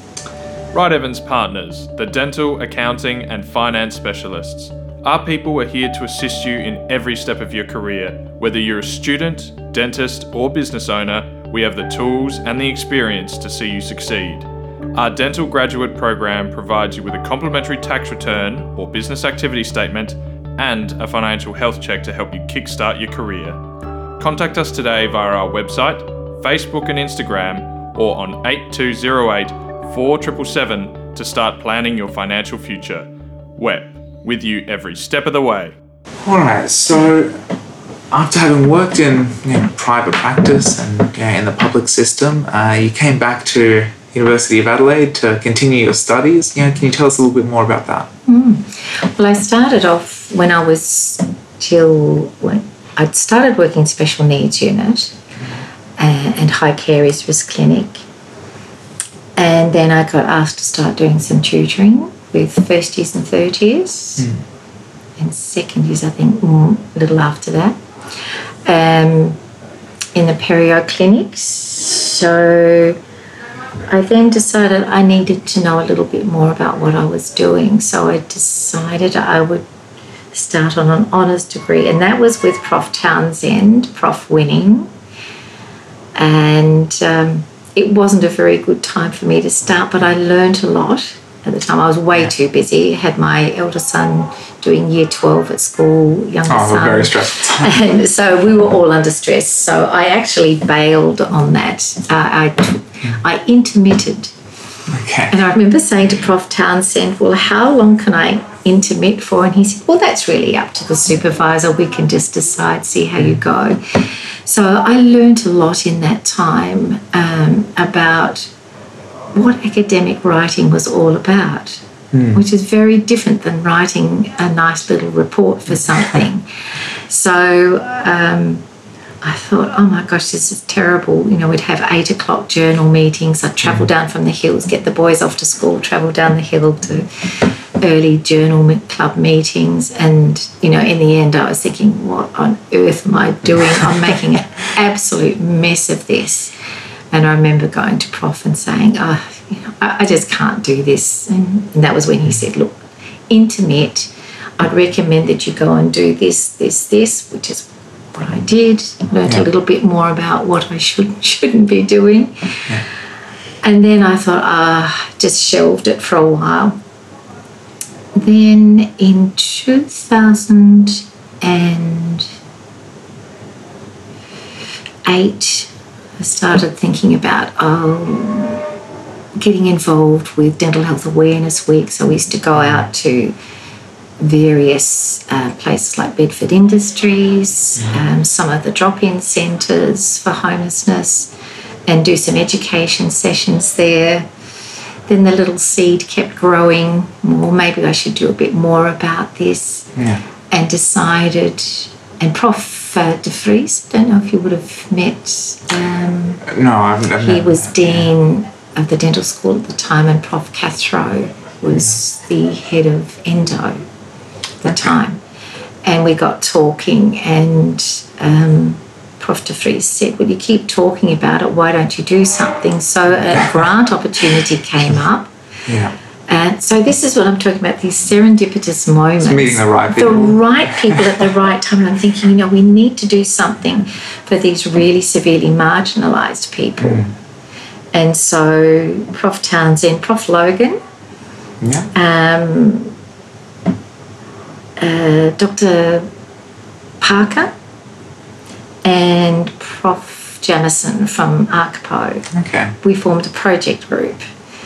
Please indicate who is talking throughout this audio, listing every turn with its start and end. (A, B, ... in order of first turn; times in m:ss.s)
0:00.7-0:23.6 A
0:24.2-0:35.7 A
0:36.2-0:37.4 B
0:38.1-0:48.1 B
0:48.3-0:55.1 C
0:56.0-0:58.0 C
0:59.4-1:04.3 C
1:05.2-1:07.8 C
1:08.6-1:09.4 C
1:10.1-1:13.0 C
1:13.9-1:19.7 C
1:20.3-1:24.9 C
1:26.1-1:44.3 C
1:36.4-1:37.8 B
1:44.9-1:45.4 B
1:45.3-1:58.5 C
1:59.3-2:06.5 C
2:02.1-2:02.4 B
2:07.1-2:08.6 C
2:09.2-2:26.5 C
2:27.1-2:42.7 C
2:43.6-2:46.8 C
2:48.1-2:52.3 C
2:55.0-2:58.6 C
2:59.4-3:03.4 C
3:02.6-3:02.9 B
3:04.2-3:11.3 C
3:11.9-3:14.3 C
3:15.1-3:20.0 C
3:20.0-3:20.2 B
3:20.5-3:26.5 C
3:26.4-3:28.1 B
3:27.2-3:33.8 C
3:34.6-3:35.2 C
3:35.8-3:45.3 C
3:45.7-3:45.9 B
3:46.3-3:57.1 C
3:49.2-3:51.2 B
3:56.8-3:57.1 B
3:57.9-4:00.8 C
4:01.6-4:01.9 B
4:01.9-4:02.9 C
4:04.8-4:06.1 C
4:07.0-4:07.5 C
4:08.8-4:12.3 C
4:12.3-4:12.7 B
4:12.8-4:14.2 C